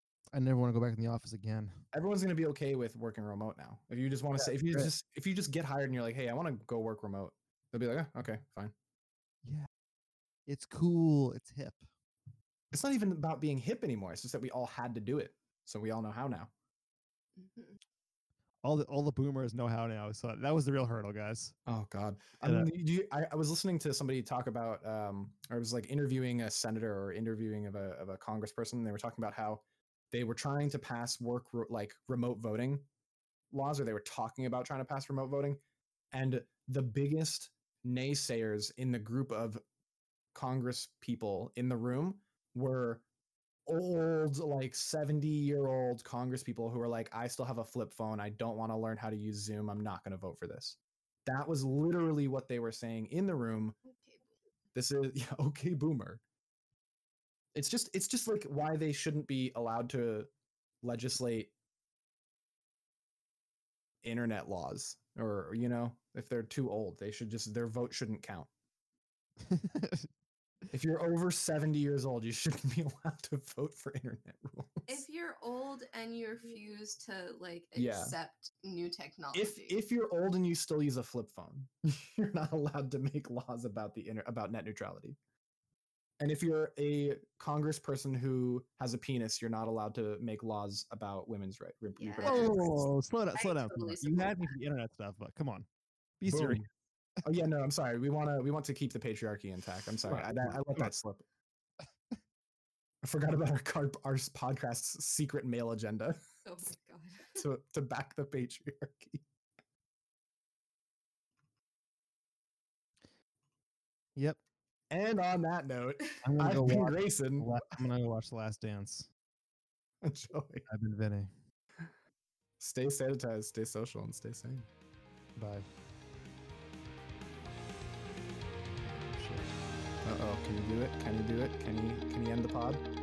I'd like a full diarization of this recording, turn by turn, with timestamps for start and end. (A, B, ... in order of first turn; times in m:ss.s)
0:00.4-0:01.8 A
0:01.9-0:08.7 B
0:04.4-0:04.9 A
0:10.5-0:11.8 A
0:12.7-0:16.5 B
0:17.4-0:17.8 C
0:18.6-0:21.6 A
0:21.7-0:32.9 B
0:22.4-0:22.7 A
0:33.5-0:35.6 B
0:36.1-0:39.6 B
0:40.3-0:43.0 B
0:43.7-0:53.8 B
0:53.8-0:54.3 C
0:54.8-0:56.2 B
0:57.6-1:00.3 B
1:00.8-1:01.5 B
1:04.0-1:08.5 B
1:09.4-1:10.1 A
1:10.7-1:15.0 B
1:14.9-1:19.8 C
1:17.8-1:18.2 B
1:19.3-1:25.2 B
1:26.2-1:32.9 B
1:32.0-1:34.6 C
1:32.2-1:35.7 A
1:36.2-1:36.7 A
1:36.3-1:36.6 B
1:37.2-1:41.2 B
1:40.1-1:40.9 A
1:43.0-1:46.2 B
1:46.4-1:47.4 C
1:47.4-1:49.2 B
1:54.9-1:57.6 B
1:56.2-1:59.1 A
2:00.0-2:00.7 B
2:00.7-2:01.3 A
2:02.6-2:04.7 B
2:05.4-2:05.6 A
2:08.8-2:09.5 A
2:10.0-2:12.8 B